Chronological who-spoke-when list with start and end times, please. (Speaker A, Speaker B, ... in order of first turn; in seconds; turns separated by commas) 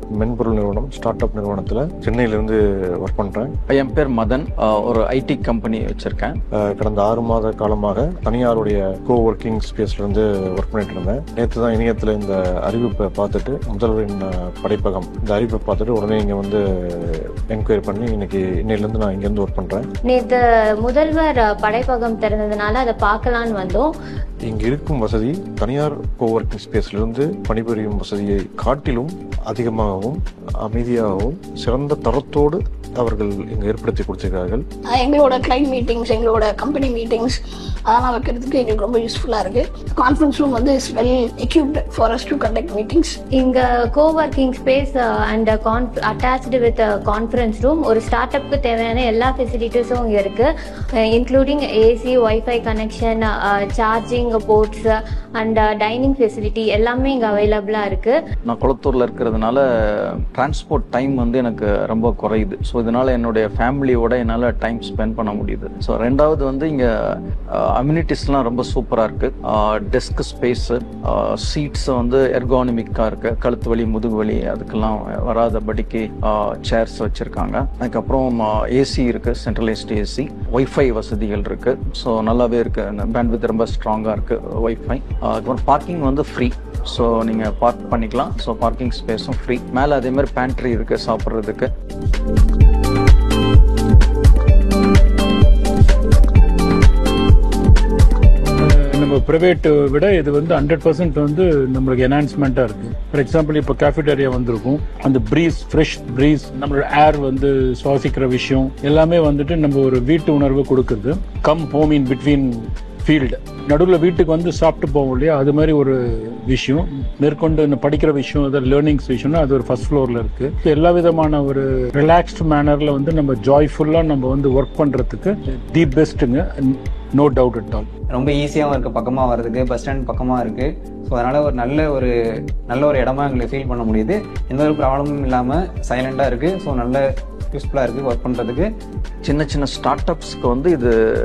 Speaker A: 0.1-3.5, Speaker B: 3.7-6.4, Speaker A: 6.6-19.9, Speaker C: 20.1-23.9, Speaker A: 24.4-34.6, Speaker D: 34.9-37.3, Speaker D: 37.9-43.2, Speaker C: 43.4-50.5, Speaker C: 51.1-58.1, Speaker B: 58.4-59.6, Speaker B: 60.3-66.9, Speaker B: 67.5-91.7, Speaker E: 98.6-127.9, Speaker F: 128.1-132.1, Speaker F: 132.7-138.7, Speaker B: 139.2-140.9